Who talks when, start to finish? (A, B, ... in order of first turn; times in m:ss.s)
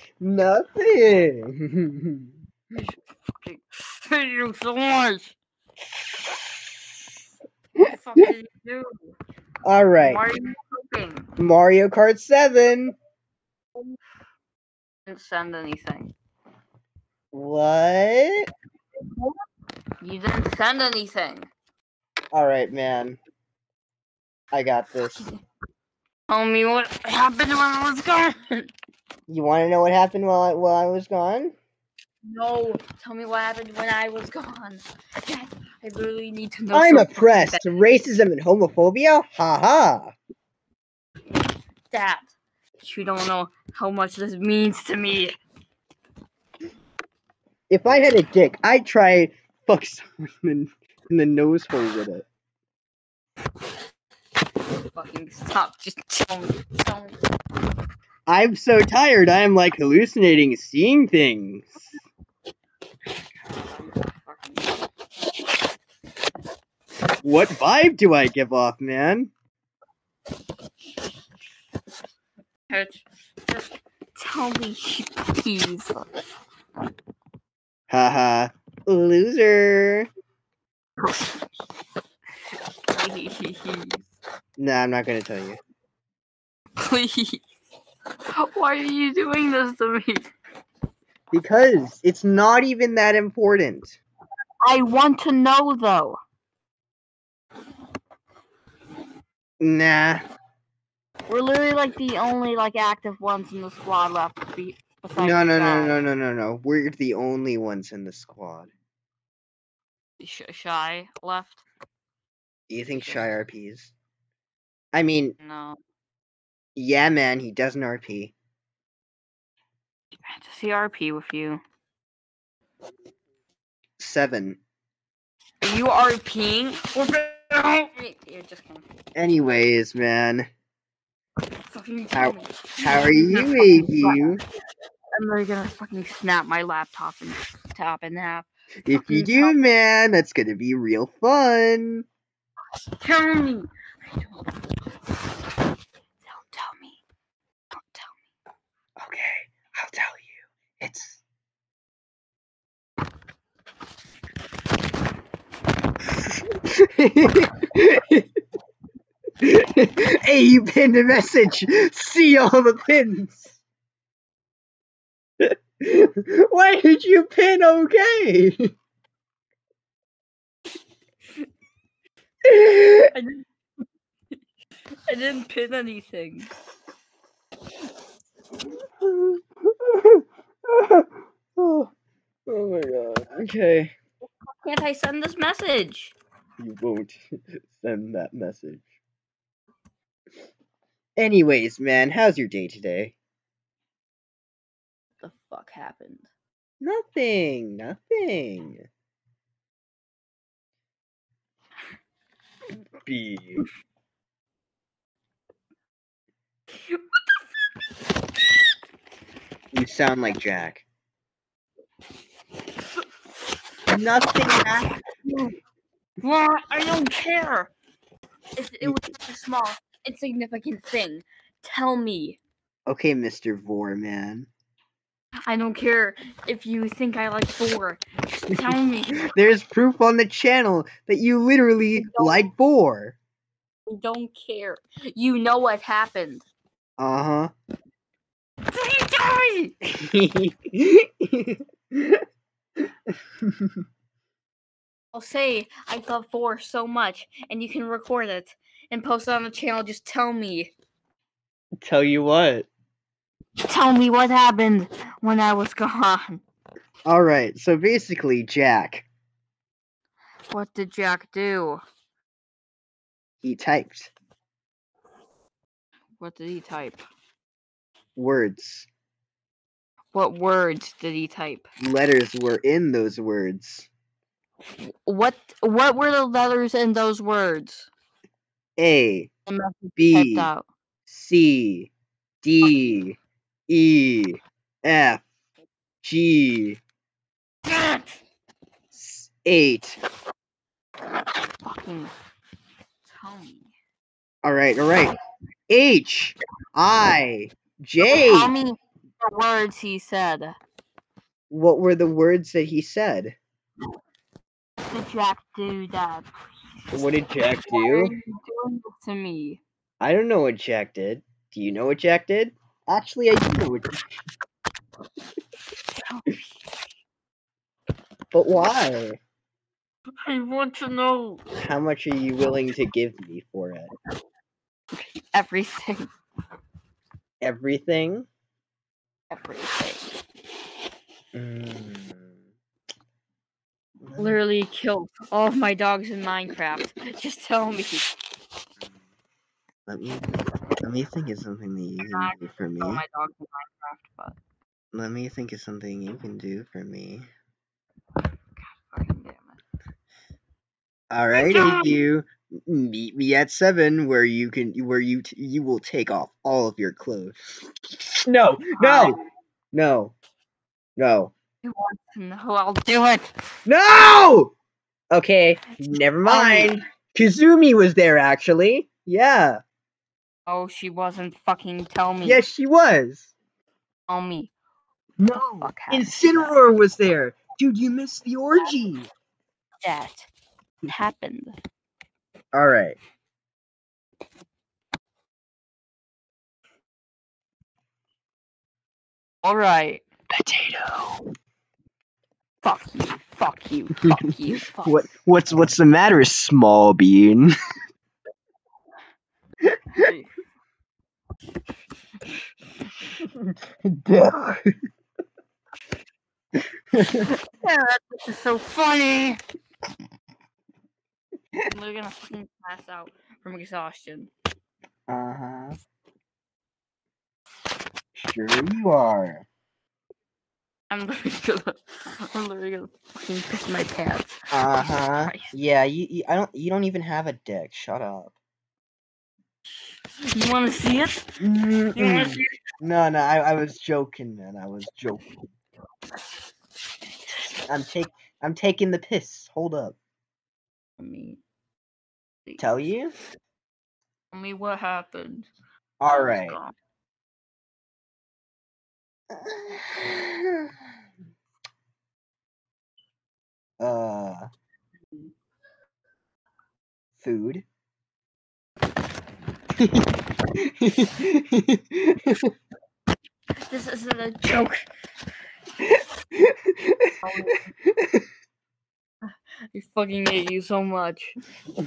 0:00.2-0:02.3 A
0:02.8-0:05.4 B
0:06.0-0:06.8 A
0:07.8-0:09.2 B
0:07.8-0:08.3 A
0:09.6-0:10.2 A
0:10.0-0:11.3 B
0:11.4-0:13.0 A
0:15.1-0:16.1 B
0:17.3-0:18.5 A
0:19.1-0:19.4 B
0:20.0-0:21.5 B
0:22.3-0:23.2 A
0:24.5-0:25.3 A
0:26.3-0:28.7 B
0:29.3-0:31.6 A
0:32.3-0:37.6 B
0:36.7-0:40.1 A
0:41.9-0:45.4 B
0:47.7-0:52.2 A
0:54.9-0:57.2 B
0:58.3-1:01.9 A
1:03.4-1:04.8 B
1:07.2-1:09.3 A
1:12.7-1:16.1 B
1:17.9-1:20.1 A
1:21.0-1:21.4 B
1:22.9-1:24.1 B
1:24.6-1:25.6 A
1:26.8-1:27.4 B
1:28.4-1:30.3 B
1:31.3-1:34.0 A
1:34.6-1:36.2 B
1:39.6-1:40.2 A
1:41.3-1:46.0 B
1:45.2-1:48.7 A
1:50.2-1:51.6 B
1:52.7-1:53.9 A
1:52.9-1:53.4 B
1:54.9-1:55.4 A
1:55.4-1:55.8 B
1:56.8-1:58.4 A
2:00.2-2:01.6 B
2:04.0-2:04.6 A
2:05.6-2:08.9 B
2:09.2-2:10.5 A
2:11.7-2:14.4 B
2:12.1-2:14.4 A
2:15.1-2:19.6 B
2:18.8-2:22.0 A
2:23.0-2:24.6 B
2:26.2-2:27.0 B
2:27.7-2:28.2 B
2:29.0-2:31.2 A
2:36.2-2:38.3 A
2:39.4-2:43.6 A
2:45.4-2:48.7 A
2:52.5-2:53.1 A
2:53.1-2:53.4 B
2:55.1-2:56.5 B
2:59.0-3:01.9 A
3:02.5-3:03.9 A
3:04.5-3:06.2 B
3:06.6-3:08.9 A
3:11.2-3:13.2 A
3:15.2-3:16.3 B
3:16.8-3:18.8 A
3:23.0-3:23.6 A
3:26.9-3:27.2 B
3:29.7-3:30.8 A
3:33.9-3:34.9 A
3:35.1-3:35.5 B
3:36.2-3:37.7 B
3:38.6-3:42.4 B
3:42.9-3:44.5 A
3:45.5-3:49.3 B
3:48.5-3:53.2 A
3:52.0-3:52.4 B
3:53.9-3:56.4 B
3:57.0-3:57.5 A
3:58.7-3:59.7 B
3:59.9-4:02.2 A
4:03.4-4:03.7 A
4:05.1-4:10.7 B
4:11.8-4:12.7 A
4:13.7-4:16.4 B
4:17.1-4:19.1 A
4:20.5-4:21.8 B
4:23.4-4:24.1 A
4:26.2-4:27.0 B
4:28.2-4:28.9 A
4:30.1-4:31.7 B
4:31.8-4:33.9 A
4:34.8-4:37.9 B
4:38.8-4:39.3 A
4:39.5-4:40.7 B
4:40.0-4:40.5 A
4:41.1-4:41.9 A
4:42.4-4:43.2 A
4:42.6-4:43.0 B
4:43.7-4:45.2 A
4:46.0-4:46.8 A
4:47.7-4:48.1 B
4:48.9-4:50.0 A
4:51.6-4:52.1 B
4:53.1-4:53.7 B
4:54.4-4:55.2 A
4:55.7-4:58.5 A
4:58.0-5:00.6 B
5:01.5-5:03.4 A
5:04.9-5:06.3 B
5:06.9-5:09.6 B
5:06.9-5:08.1 A
5:10.0-5:13.9 A
5:16.0-5:16.4 B
5:18.3-5:19.2 A
5:20.2-5:21.4 B
5:21.6-5:23.9 A
5:24.9-5:26.1 B
5:27.4-5:28.3 A
5:29.3-5:30.1 B
5:31.3-5:32.4 A
5:34.0-5:34.4 A
5:34.2-5:38.1 B
5:39.9-5:43.0 A
5:42.0-5:44.4 B
5:44.9-5:47.3 A
5:48.6-5:49.6 B
5:51.1-5:57.4 A
5:51.3-5:52.0 B
5:58.0-5:59.2 A
5:58.7-5:59.2 B
5:59.7-6:00.1 A
6:01.0-6:01.3 A
6:01.6-6:03.3 B
6:03.7-6:04.5 A
6:05.1-6:09.6 A
6:06.2-6:06.7 B
6:10.5-6:12.4 B
6:12.2-6:13.3 A
6:14.1-6:14.5 B
6:15.2-6:19.1 A
6:15.6-6:16.5 B
6:19.8-6:20.3 B
6:20.9-6:21.6 B
6:22.5-6:23.0 A
6:29.4-6:30.0 B
6:30.3-6:31.2 A
6:32.6-6:35.1 B
6:34.8-6:37.5 A
6:39.6-6:40.0 A
6:39.9-6:40.3 B
6:43.2-6:44.6 A
6:46.9-6:47.3 A
6:47.1-6:49.4 B
6:51.7-6:54.3 B
6:55.1-6:55.8 A
6:58.2-6:59.5 A
7:00.9-7:04.4 B
7:04.5-7:08.4 A
7:05.1-7:05.5 B
7:10.3-7:11.3 B
7:11.4-7:15.4 A
7:12.0-7:12.5 B
7:17.7-7:20.0 A
7:21.0-7:21.4 B
7:22.6-7:23.1 A
7:24.3-7:25.5 B
7:26.0-7:26.6 A
7:26.1-7:26.8 B
7:29.3-7:30.7 A
7:33.8-7:34.5 A
7:37.2-7:37.6 A
7:39.8-7:42.5 A
7:43.7-7:44.9 B
7:45.8-7:47.1 A
7:47.2-7:47.7 B
7:47.9-7:48.2 A
7:49.3-7:51.4 B